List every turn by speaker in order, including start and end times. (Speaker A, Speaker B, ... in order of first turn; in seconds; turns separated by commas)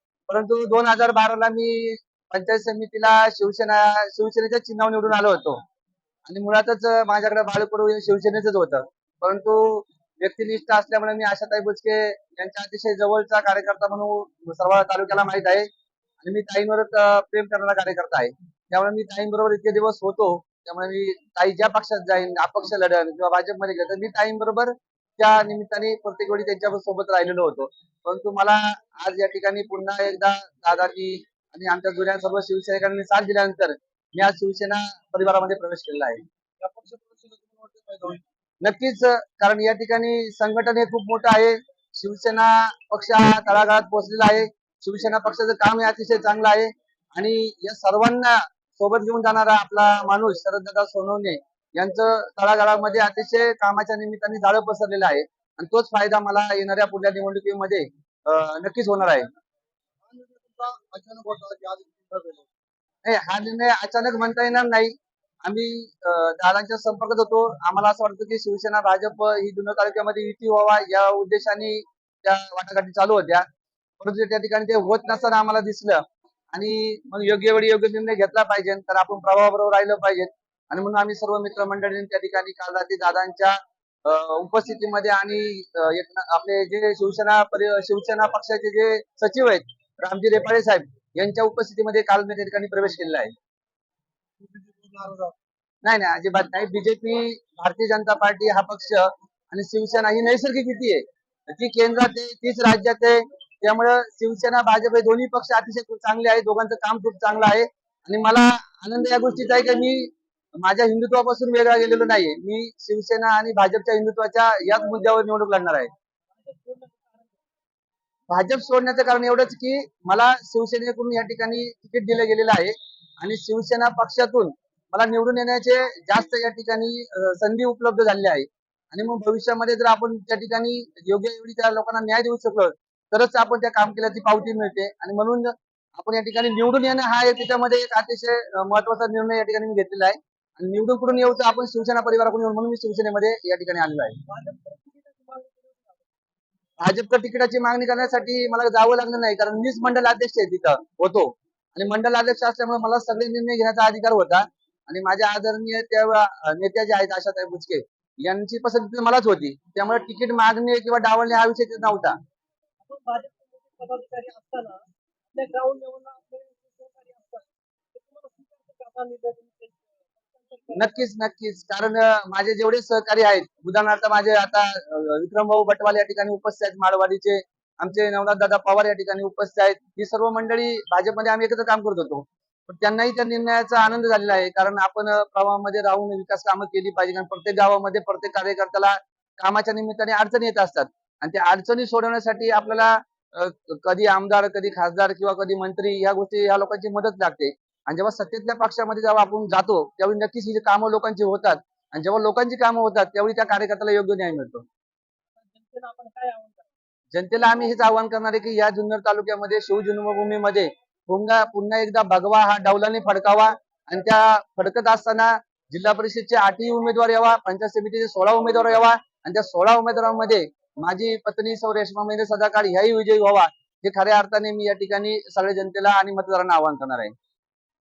Speaker A: 0.3-5.6, Speaker A: 6.3-15.7, Speaker A: 16.2-36.2, Speaker B: 36.6-38.2, Speaker A: 38.6-59.2, Speaker B: 60.0-62.5, Speaker A: 63.0-73.4, Speaker A: 74.0-76.0, Speaker A: 76.5-93.3, Speaker B: 94.4-95.3, Speaker A: 95.8-110.1, Speaker A: 110.6-115.9, Speaker C: 116.3-117.4, Speaker A: 118.3-144.2, Speaker C: 144.3-146.0, Speaker A: 146.8-162.2, Speaker C: 162.8-170.9, Speaker A: 170.7-204.6, Speaker C: 205.3-206.7, Speaker A: 207.1-227.1